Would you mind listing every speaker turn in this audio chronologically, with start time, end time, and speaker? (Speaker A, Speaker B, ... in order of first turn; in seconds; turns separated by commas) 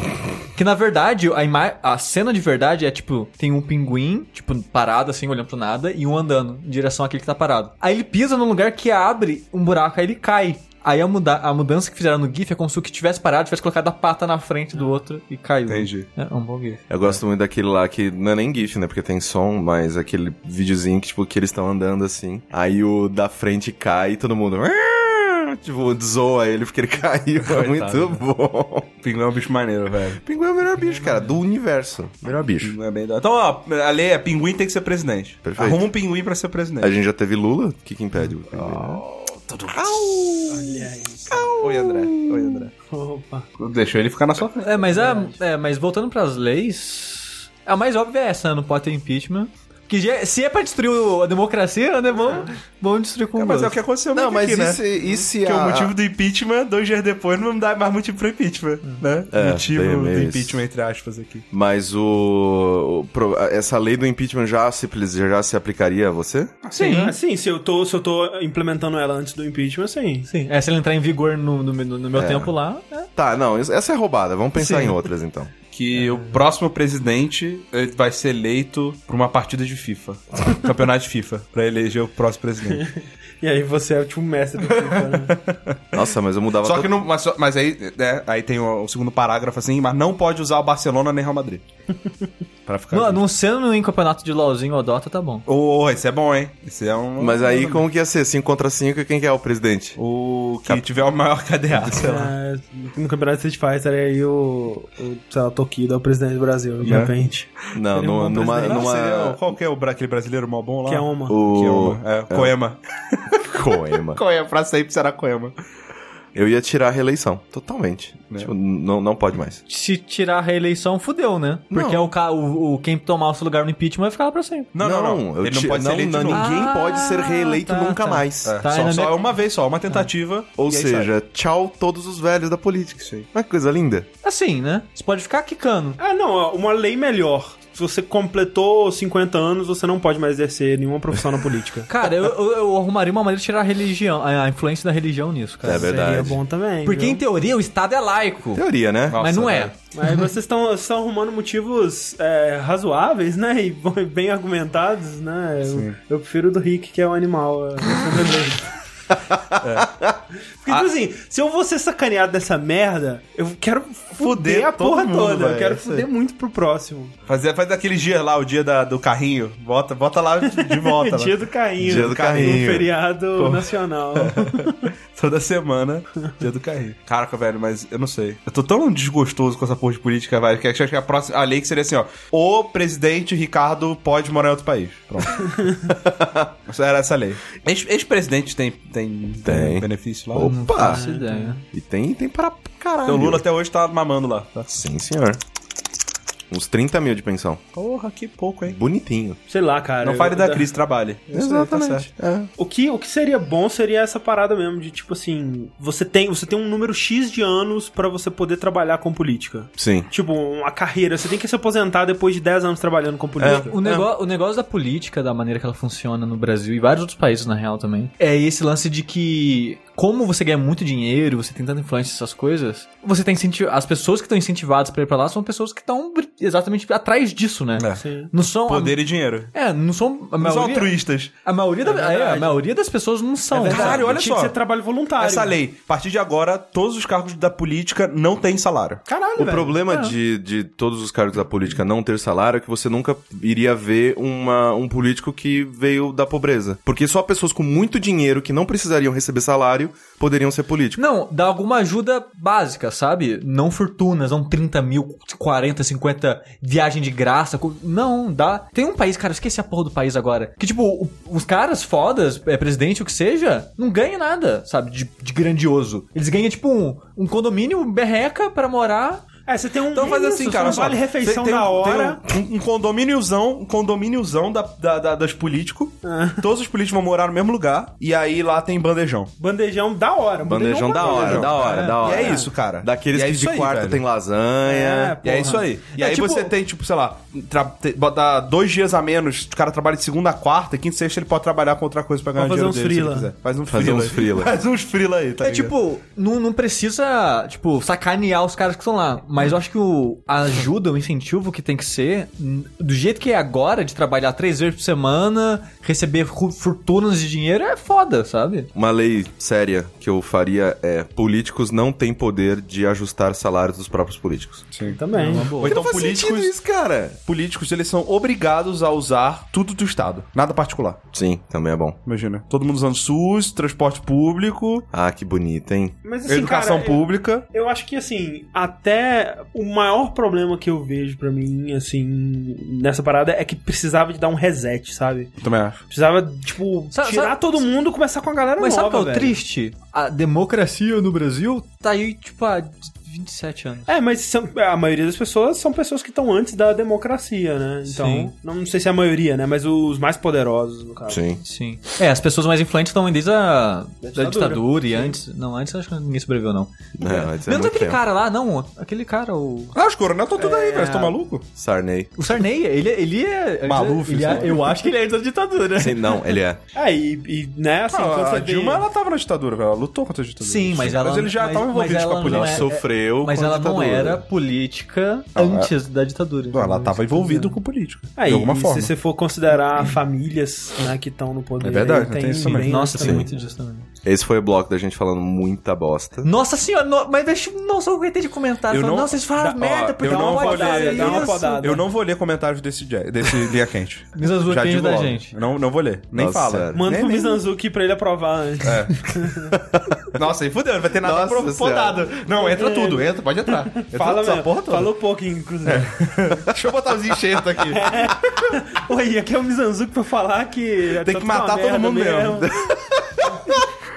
Speaker A: 0.5-16.8, Speaker B: 15.7-16.1, Speaker C: 16.9-28.9, Speaker B: 27.4-28.2, Speaker B: 29.0-30.2, Speaker C: 30.2-32.8, Speaker A: 30.8-31.3, Speaker B: 32.6-36.9, Speaker C: 35.4-35.9, Speaker C: 36.8-39.0, Speaker B: 38.5-40.4, Speaker C: 39.7-42.5, Speaker D: 40.5-41.5, Speaker B: 41.4-42.7, Speaker D: 42.9-43.5, Speaker B: 43.6-44.8, Speaker A: 44.6-53.7, Speaker D: 44.9-45.4, Speaker B: 53.4-54.9, Speaker C: 54.1-55.9, Speaker B: 55.4-61.4, Speaker C: 59.3-60.6, Speaker C: 61.5-66.5, Speaker B: 66.6-67.1, Speaker A: 66.7-67.1, Speaker D: 66.8-70.3, Speaker A: 70.3-73.1, Speaker C: 72.1-72.5, Speaker C: 73.2-75.5, Speaker A: 74.5-74.9, Speaker B: 75.7-82.9, Speaker D: 82.7-85.3, Speaker B: 84.6-86.0, Speaker C: 85.9-87.0, Speaker B: 86.6-91.6, Speaker B: 92.7-93.2, Speaker A: 92.9-95.4, Speaker B: 95.5-97.8, Speaker C: 97.2-100.0, Speaker B: 100.0-102.3, Speaker D: 101.9-108.9, Speaker B: 106.8-107.1, Speaker C: 107.7-109.4, Speaker B: 108.2-115.5, Speaker D: 110.8-111.4, Speaker C: 111.3-112.5, Speaker C: 113.5-114.2, Speaker C: 116.3-119.6, Speaker A: 119.7-124.7, Speaker C: 121.7-122.1, Speaker B: 124.7-126.6, Speaker C: 124.8-128.6, Speaker A: 126.3-129.3, Speaker B: 128.4-131.1, Speaker C: 130.6-134.1, Speaker A: 134.2-136.0, Speaker D: 136.0-141.9, Speaker A: 141.9-146.3, Speaker C: 145.6-146.4, Speaker D: 145.7-147.2, Speaker A: 146.8-148.6, Speaker C: 148.5-149.2, Speaker B: 149.1-149.7, Speaker A: 149.2-149.8, Speaker D: 149.9-158.7, Speaker B: 155.7-156.0, Speaker C: 159.3-160.1, Speaker B: 159.6-160.0, Speaker D: 160.6-167.1, Speaker B: 164.1-166.1, Speaker B: 167.3-172.7, Speaker D: 170.4-174.9, Speaker C: 171.8-172.9, Speaker B: 173.3-185.6, Speaker C: 185.9-186.5, Speaker B: 186.7-190.5, Speaker C: 189.4-191.0, Speaker A: 190.4-191.6, Speaker D: 190.8-191.6, Speaker C: 191.7-193.4, Speaker B: 193.0-194.7, Speaker C: 194.7-195.4, Speaker C: 196.5-197.6, Speaker B: 197.7-198.8, Speaker C: 198.6-199.4, Speaker D: 199.5-200.7, Speaker B: 200.0-202.1, Speaker C: 201.3-202.5, Speaker D: 202.6-213.7, Speaker C: 209.8-210.1, Speaker C: 213.4-214.1, Speaker A: 213.5-229.0, Speaker B: 227.8-228.0, Speaker D: 228.0-228.3, Speaker B: 228.7-229.5, Speaker A: 229.5-234.1, Speaker B: 230.4-231.3, Speaker D: 231.8-232.6, Speaker D: 233.5-235.6, Speaker B: 233.6-234.6, Speaker B: 235.2-239.0, Speaker D: 239.1-239.8, Speaker C: 239.4-251.0, Speaker A: 239.9-240.1, Speaker A: 251.0-269.3, Speaker D: 269.4-272.2, Speaker B: 269.9-279.3, Speaker D: 276.0-276.4, Speaker D: 279.4-282.5, Speaker C: 280.4-285.1, Speaker B: 280.9-284.0, Speaker A: 281.6-281.9, Speaker D: 284.6-285.7, Speaker B: 285.2-295.7, Speaker A: 285.9-286.5, Speaker D: 292.3-293.3, Speaker C: 293.7-294.5, Speaker A: 295.4-308.7, Speaker C: 308.7-314.7, Speaker B: 314.7-316.5, Speaker D: 314.8-315.5, Speaker A: 315.1-315.8, Speaker C: 315.6-317.2, Speaker B: 317.2-321.0, Speaker C: 321.1-321.9, Speaker B: 322.1-324.9, Speaker C: 324.9-325.9, Speaker D: 326.0-335.3, Speaker B: 326.3-327.4, Speaker B: 335.4-335.8, Speaker D: 335.9-339.4, Speaker A: 336.9-337.4, Speaker A: 338.6-343.9, Speaker D: 343.9-351.2, Speaker A: 347.9-348.3, Speaker C: 351.1-351.4, Speaker A: 351.4-359.7, Speaker D: 354.0-355.2, Speaker C: 357.0-358.0, Speaker B: 359.7-361.4, Speaker D: 360.4-361.2, Speaker C: 361.6-362.1, Speaker A: 362.2-366.4, Speaker B: 363.6-364.8, Speaker C: 365.8-366.6, Speaker D: 366.7-368.8, Speaker B: 367.9-372.7, Speaker A: 370.4-377.5, Speaker C: 372.2-374.2, Speaker B: 375.4-375.7, Speaker B: 376.5-378.9, Speaker D: 378.1-383.5, Speaker B: 381.6-382.8, Speaker A: 382.5-383.8, Speaker C: 383.0-383.2, Speaker C: 384.0-386.3, Speaker A: 386.2-391.8, Speaker B: 388.7-397.4, Speaker D: 390.0-391.9, Speaker A: 394.1-395.3, Speaker C: 396.1-396.8, Speaker D: 396.7-399.5, Speaker B: 398.6-399.2, Speaker C: 399.5-399.9, Speaker B: 400.1-404.9, Speaker C: 401.0-402.1, Speaker D: 402.4-405.9, Speaker B: 405.6-408.1, Speaker D: 407.7-412.5, Speaker B: 411.0-412.5, Speaker C: 412.5-413.7